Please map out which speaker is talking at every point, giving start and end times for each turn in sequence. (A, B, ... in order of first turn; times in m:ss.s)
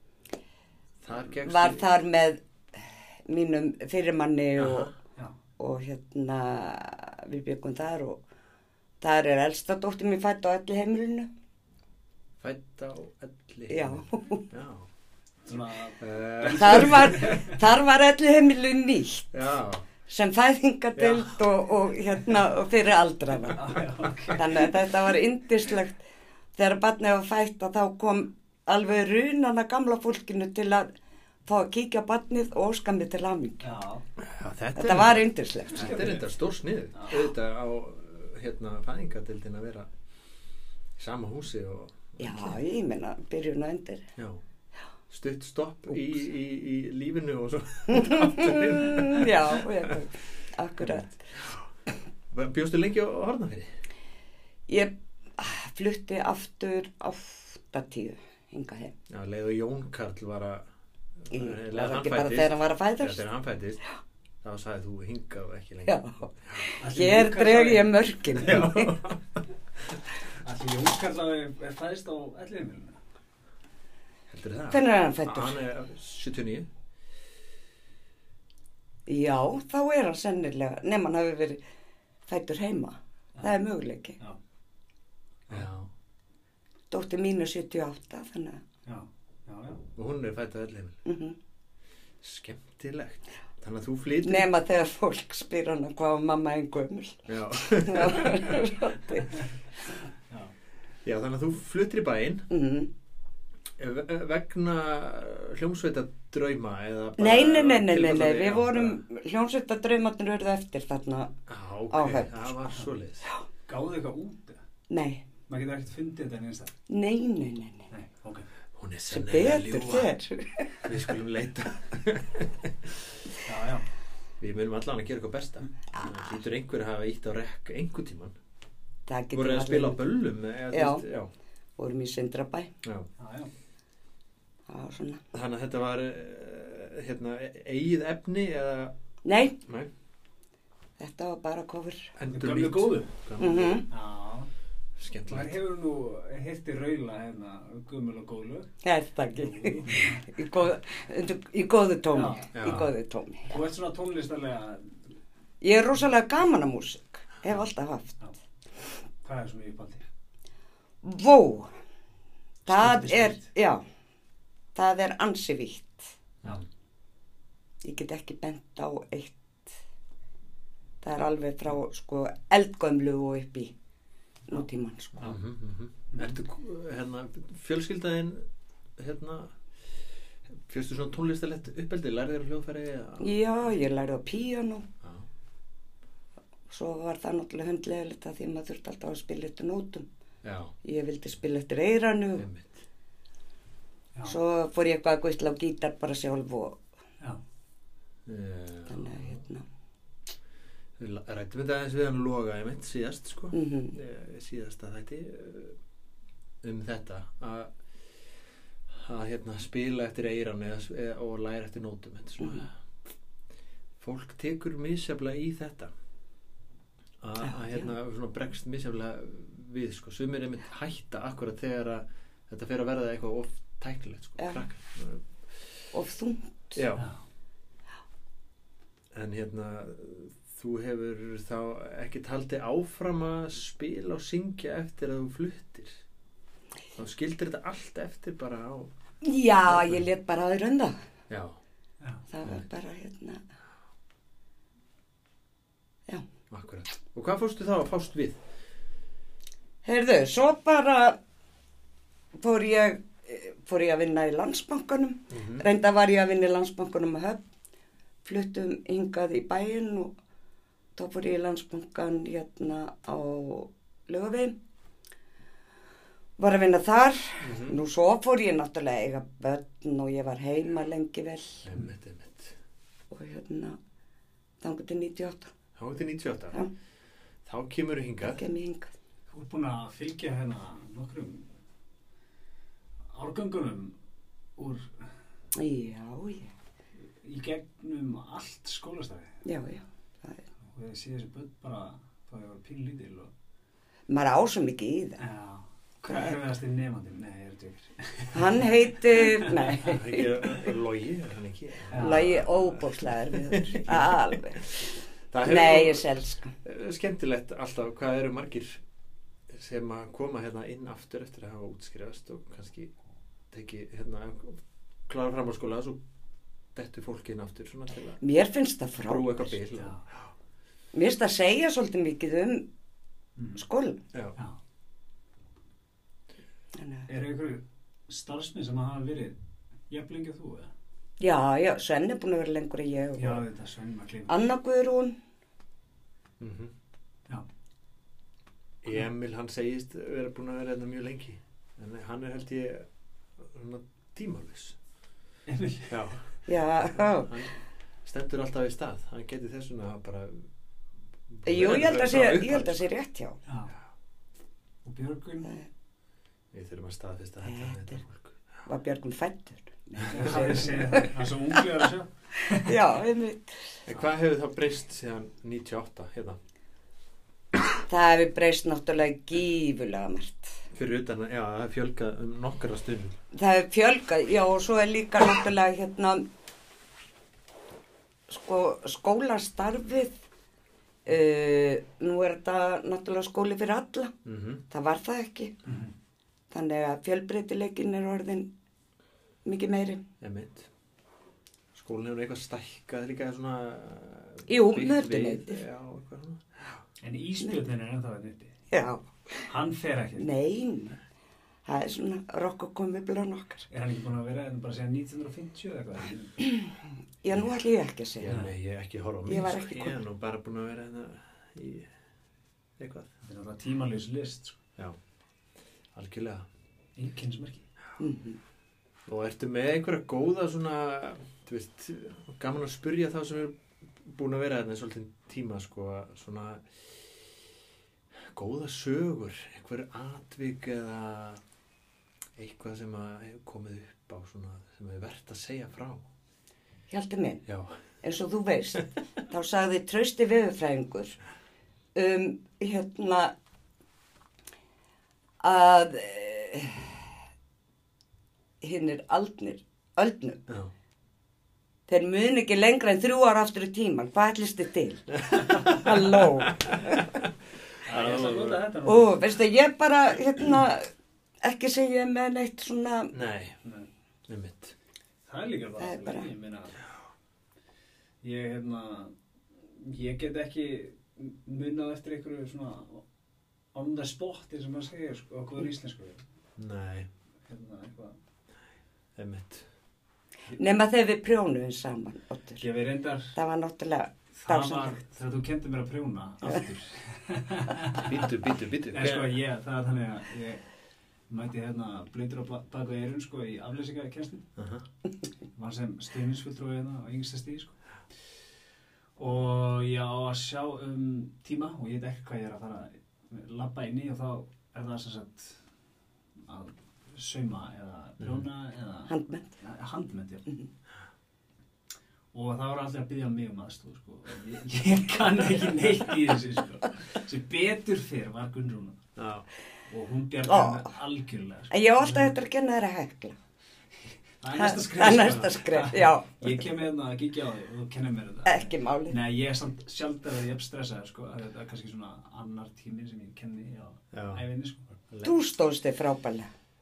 0:01.0-0:01.8 A
0:01.4-0:04.9 B
0:04.6-0:04.9 A
0:05.6-0:08.2 B
0:09.0-0:11.3 B
0:12.4-0:14.9 A
0:13.7-0:14.4 B
0:15.4-0:17.6 C
0:16.0-0:17.4 A
0:16.5-0:19.3 B
0:19.3-0:19.9 A
0:20.1-0:23.8 B
0:21.0-0:21.4 A
0:23.5-0:24.7 C
0:24.4-0:26.0 B
0:26.6-0:30.9 B
0:31.5-0:33.7 B
0:33.6-0:34.0 C
0:34.2-0:39.9 A
0:34.8-0:36.0 B
0:35.7-0:36.3 C
0:37.0-0:37.2 C
0:41.0-0:42.6 A
0:42.2-0:44.0 B
0:44.2-0:44.4 A
0:45.1-0:49.7 A
0:47.9-0:51.2 B
0:50.8-0:51.6 A
0:52.3-0:53.7 A
0:54.7-0:58.9 B
0:59.1-1:00.6 A
1:01.2-1:03.8 A
1:01.3-1:03.2 B
1:04.4-1:06.7 A
1:05.9-1:09.0 B
1:06.8-1:08.0 C
1:08.4-1:09.2 A
1:10.4-1:13.0 C
1:14.3-1:16.7 A
1:14.7-1:15.6 B
1:19.1-1:21.6 B
1:22.3-1:24.2 B
1:25.5-1:25.9 A
1:26.9-1:28.6 B
1:28.9-1:29.8 C
1:29.9-1:31.0 A
1:31.1-1:31.4 B
1:32.2-1:34.5 A
1:34.2-1:39.3 B
1:37.3-1:38.7 A
1:41.0-1:42.5 A
1:42.5-1:42.9 B
1:43.8-1:49.0 A
1:47.2-1:51.3 B
1:51.5-1:53.2 A
1:51.9-1:52.5 B
1:53.7-1:54.6 C
1:54.9-1:55.2 B
1:55.5-1:56.7 C
1:56.9-1:57.9 B
1:57.9-1:58.5 C
1:58.8-2:00.2 A
1:59.1-2:00.9 B
2:00.8-2:03.0 A
2:03.4-2:03.9 C
2:04.4-2:08.4 A
2:05.9-2:06.3 B
2:09.1-2:10.0 B
2:09.3-2:11.3 A
2:10.7-2:11.0 B
2:11.8-2:12.7 B
2:12.8-2:13.1 A
2:13.2-2:13.5 C
2:14.7-2:15.2 B
2:15.3-2:18.9 A
2:19.2-2:19.6 B
2:21.0-2:22.1 B
2:22.2-2:23.9 A
2:22.3-2:23.1 C
2:23.4-2:23.9 B
2:23.9-2:24.5 C
2:25.0-2:25.6 A
2:25.3-2:28.7 C
2:28.8-2:33.5 B
2:29.4-2:30.2 C
2:32.1-2:32.5 C
2:32.5-2:32.9 A
2:33.5-2:34.9 C
2:35.6-2:38.2 B
2:39.2-2:40.1 C
2:41.0-2:41.7 B
2:42.7-2:43.5 C
2:42.7-2:43.8 B
2:44.8-2:46.0 B
2:47.8-2:49.7 B
2:51.0-2:53.7 B
2:54.5-2:55.4 B
2:55.2-2:58.4 A
2:56.1-2:56.4 C
2:59.0-2:59.6 A
3:00.7-3:03.4 A
3:03.2-3:04.8 B
3:06.7-3:10.1 B
3:10.4-3:10.7 A
3:10.8-3:12.5 B
3:12.4-3:12.8 A
3:14.2-3:16.8 B
3:18.3-3:19.3 A
3:18.9-3:19.7 B
3:21.0-3:25.8 A
3:23.5-3:24.0 B
3:26.6-3:27.7 A
3:28.9-3:32.7 A
3:32.4-3:32.7 B
3:34.0-3:35.9 A
3:37.2-3:45.3 A
3:37.4-3:37.9 B
3:45.9-3:46.8 B
3:46.8-3:47.0 A
3:49.1-3:56.0 A
3:57.0-3:58.9 A
3:59.2-4:01.0 B
3:59.7-4:00.1 A
4:01.3-4:01.6 A
4:02.3-4:03.4 B
4:06.5-4:08.4 A
4:09.8-4:11.2 B
4:12.4-4:17.4 B
4:15.3-4:15.7 A
4:18.2-4:20.1 B
4:21.0-4:24.6 B
4:26.4-4:31.7 B
4:27.4-4:27.8 A
4:31.6-4:32.6 A
4:33.1-4:33.8 B
4:34.6-4:35.5 B
4:35.8-4:36.6 A
4:37.5-4:38.4 A
4:38.2-4:38.9 B
4:39.3-4:41.5 C
4:43.1-4:44.0 C
4:44.6-4:44.9 C
4:45.6-4:46.5 B
4:47.2-4:49.4 C
4:49.4-4:50.4 B
4:50.7-4:53.3 C
4:54.1-4:55.2 B
4:55.2-4:59.7 C
4:58.3-5:00.7 B
4:59.8-5:04.2 A
5:01.9-5:02.4 C
5:02.0-5:04.8 B
5:05.3-5:06.1 A
5:05.4-5:06.5 B
5:06.6-5:08.8 A
5:09.5-5:12.9 A
5:13.5-5:16.0 A
5:16.8-5:18.2 A
5:18.2-5:19.6 B
5:19.0-5:20.0 A
5:19.7-5:20.0 C
5:20.9-5:22.7 B
5:23.4-5:23.6 C
5:23.6-5:24.0 B
5:26.8-5:27.1 B
5:27.1-5:29.4 C
5:29.9-5:30.7 C
5:31.2-5:33.4 B
5:33.2-5:34.4 C
5:34.3-5:35.2 B
5:36.4-5:36.7 A
5:38.8-5:42.9 A
5:43.4-5:44.8 A
5:45.5-5:45.9 C
5:45.9-5:50.5 A
5:46.5-5:47.3 B
5:51.3-5:52.8 A
5:51.4-5:53.4 B
5:53.5-5:53.7 C
5:54.8-5:55.5 C
5:56.5-5:58.4 A
5:57.4-5:58.0 B
5:58.6-6:01.1 B
6:00.1-6:02.8 C
6:02.5-6:03.8 B
6:03.9-6:06.4 A
6:07.9-6:10.6 B
6:10.7-6:13.2 A
6:13.3-6:16.2 B
6:18.3-6:20.1 B
6:21.0-6:24.1 B
6:24.2-6:24.6 A
6:24.7-6:25.5 B
6:26.5-6:28.5 B
6:29.4-6:30.0 B
6:30.2-6:30.7 A
6:31.7-6:36.4 A
6:34.5-6:35.6 B
6:37.0-6:38.5 C
6:38.7-6:39.5 B
6:39.5-6:40.3 C
6:40.2-6:41.0 B
6:41.7-6:43.7 B
6:43.7-6:46.4 C
6:47.2-6:48.3 B
6:47.3-6:47.6 A
6:48.2-6:51.9 A
6:48.3-6:48.5 C
6:49.3-6:50.0 B
6:52.8-6:53.1 A
6:53.3-6:54.6 C
6:55.9-6:56.5 A
6:57.0-6:57.6 C
6:58.0-6:58.4 B
6:59.1-7:06.6 A
7:08.4-7:11.4 A
7:12.4-7:16.0 A
7:16.9-7:17.4 B
7:17.5-7:17.7 A
7:18.0-7:21.2 B
7:22.0-7:23.3 B
7:25.4-7:27.0 B
7:28.6-7:30.4 B
7:31.9-7:37.1 B
7:35.5-7:37.3 A
7:37.8-7:39.2 C
7:37.9-7:38.6 A
7:38.8-7:40.9 B
7:41.4-7:43.2 B
7:43.1-7:43.6 A
7:43.6-7:43.9 C
7:44.3-7:44.8 A
7:45.3-7:46.8 C
7:45.8-7:46.3 B
7:48.2-7:49.2 C
7:49.7-7:53.0 C
7:53.7-7:56.2 C
7:56.6-7:57.1 A
7:57.5-7:58.2 C
7:59.2-7:59.7 A
8:00.6-8:02.6 B
8:02.6-8:03.3 C
8:03.3-8:05.0 B
8:04.4-8:08.3 C
8:08.0-8:09.4 A
8:08.9-8:10.6 C
8:11.3-8:14.4 C
8:14.6-8:14.8 A
8:15.6-8:17.8 C
8:19.2-8:25.6 C
8:26.5-8:30.5 C
8:28.2-8:28.5 A
8:29.1-8:29.5 B
8:32.3-8:39.0 C
8:39.2-8:39.4 A
8:39.9-8:42.3 C
8:40.4-8:40.9 B
8:41.7-8:43.4 B
8:44.4-8:55.0 C
8:44.6-8:46.4 B
8:48.4-8:49.2 B
8:54.1-8:54.4 A
8:55.2-8:56.5 B